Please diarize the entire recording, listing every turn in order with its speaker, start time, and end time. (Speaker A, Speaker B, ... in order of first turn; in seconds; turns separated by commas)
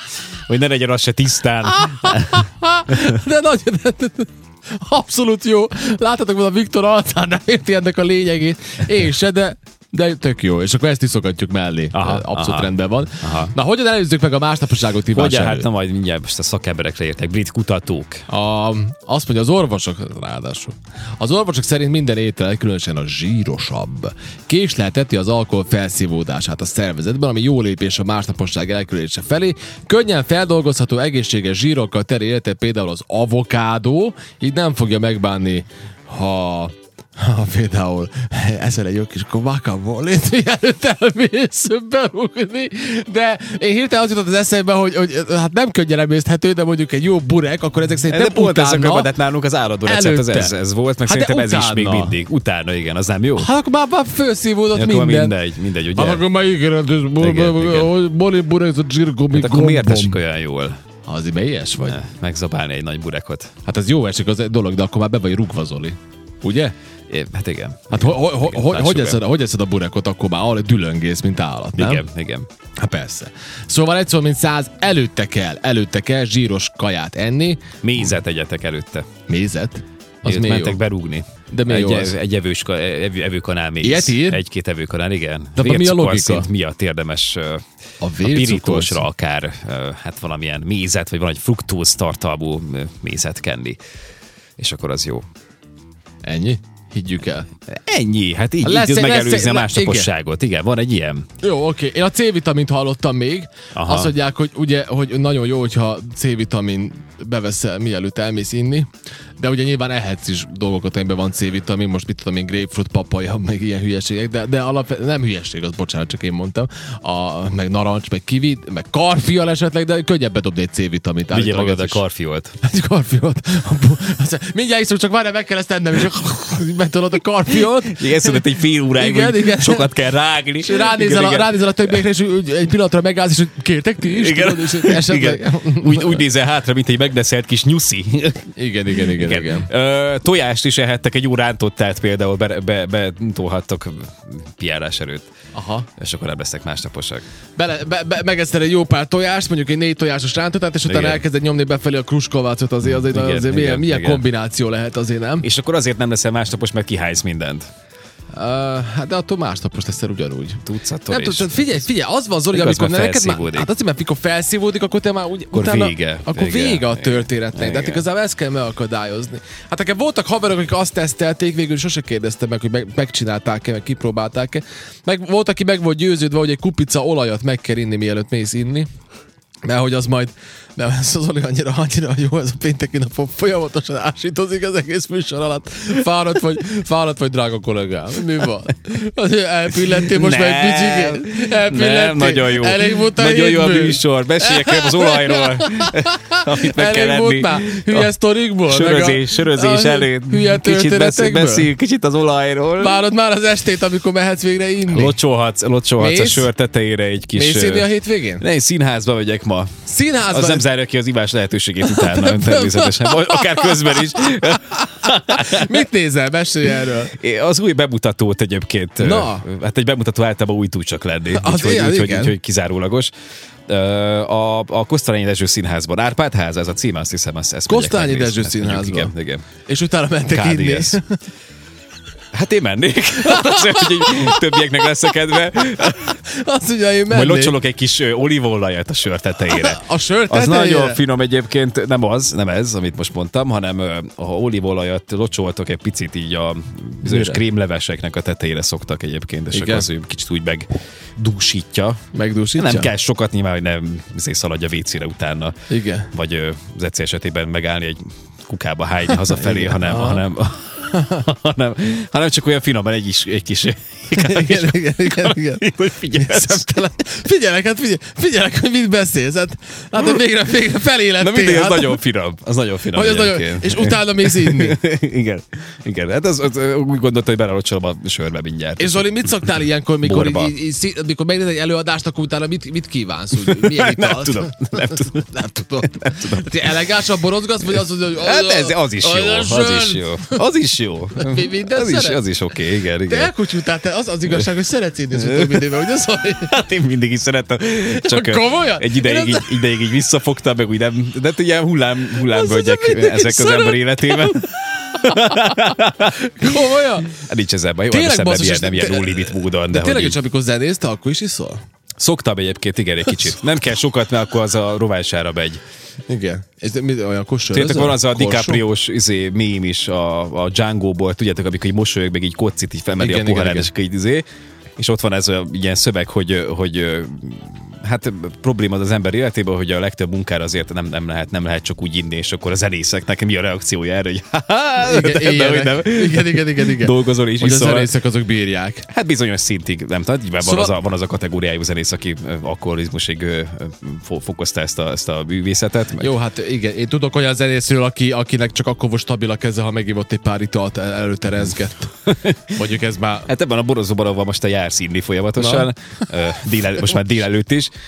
Speaker A: 0.5-3.1, Speaker B: 1.7-15.7, Speaker A: 11.9-13.5, Speaker A: 15.1-18.2, Speaker B: 18.3-49.1, Speaker A: 48.1-53.5, Speaker B: 49.8-50.5, Speaker B: 51.0-52.2, Speaker B: 53.4-55.4, Speaker A: 54.7-56.2, Speaker B: 55.9-60.2, Speaker A: 57.2-57.9, Speaker A: 59.3-60.8, Speaker B: 61.0-62.0, Speaker A: 61.8-63.5, Speaker B: 63.6-66.7, Speaker A: 67.1-69.2, Speaker B: 67.9-72.0, Speaker A: 71.8-72.5, Speaker B: 72.8-77.7, Speaker A: 77.8-79.0, Speaker B: 79.3-80.8, Speaker A: 80.2-87.6, Speaker B: 81.5-82.2, Speaker B: 83.8-84.4, Speaker B: 85.5-86.5, Speaker B: 88.0-89.0, Speaker A: 88.2-93.8, Speaker A: 94.6-95.2, Speaker B: 96.2-97.5, Speaker A: 97.7-101.3, Speaker B: 98.6-100.1, Speaker B: 101.4-122.0, Speaker A: 103.7-104.1, Speaker A: 121.3-122.5, Speaker B: 122.6-129.9, Speaker A: 127.8-132.0, Speaker B: 130.6-136.2, Speaker A: 134.0-145.3, Speaker B: 138.6-139.7, Speaker B: 145.5-145.9, Speaker A: 146.0-147.2, Speaker B: 147.6-155.5, Speaker A: 150.8-151.2, Speaker A: 152.8-154.2, Speaker A: 155.4-157.7, Speaker B: 158.3-178.9, Speaker A: 160.6-161.8, Speaker A: 162.5-163.7, Speaker A: 165.5-168.0, Speaker B: 179.7-201.7, Speaker A: 189.8-198.1, Speaker A: 198.7-203.0, Speaker B: 202.8-205.2, Speaker A: 204.9-209.7, Speaker B: 206.0-206.5, Speaker B: 207.3-208.4, Speaker B: 209.8-210.6, Speaker A: 210.3-215.8, Speaker B: 211.8-217.1, Speaker A: 217.1-223.1, Speaker B: 219.0-219.4, Speaker B: 221.3-222.3, Speaker A: 223.7-229.4, Speaker B: 227.7-229.1, Speaker B: 229.7-231.2, Speaker A: 230.3-231.0, Speaker A: 232.3-236.2, Speaker B: 233.2-234.6, Speaker B: 235.8-237.6, Speaker A: 237.1-252.0, Speaker B: 239.5-241.0, Speaker B: 247.0-247.4, Speaker B: 249.5-249.9, Speaker B: 252.1-252.9, Speaker A: 252.5-255.5, Speaker B: 255.7-256.1, Speaker A: 256.1-266.7, Speaker B: 259.3-260.2, Speaker B: 260.9-261.2, Speaker B: 264.1-272.0, Speaker A: 271.2-279.3, Speaker B: 272.9-274.8, Speaker B: 278.8-290.4, Speaker A: 280.0-280.5, Speaker A: 283.4-285.3, Speaker A: 285.8-286.8, Speaker A: 288.1-293.3, Speaker B: 291.2-292.2, Speaker B: 293.1-296.5, Speaker A: 295.1-295.7, Speaker A: 296.4-310.2, Speaker B: 298.0-299.7, Speaker B: 302.2-307.2, Speaker B: 307.9-311.6, Speaker A: 312.0-315.6, Speaker B: 316.1-318.6, Speaker A: 317.5-324.2, Speaker B: 323.0-323.7, Speaker A: 324.8-337.9, Speaker B: 334.8-338.9, Speaker A: 338.9-346.1, Speaker B: 340.4-340.7, Speaker B: 346.0-353.3, Speaker A: 353.3-357.7, Speaker B: 355.4-355.7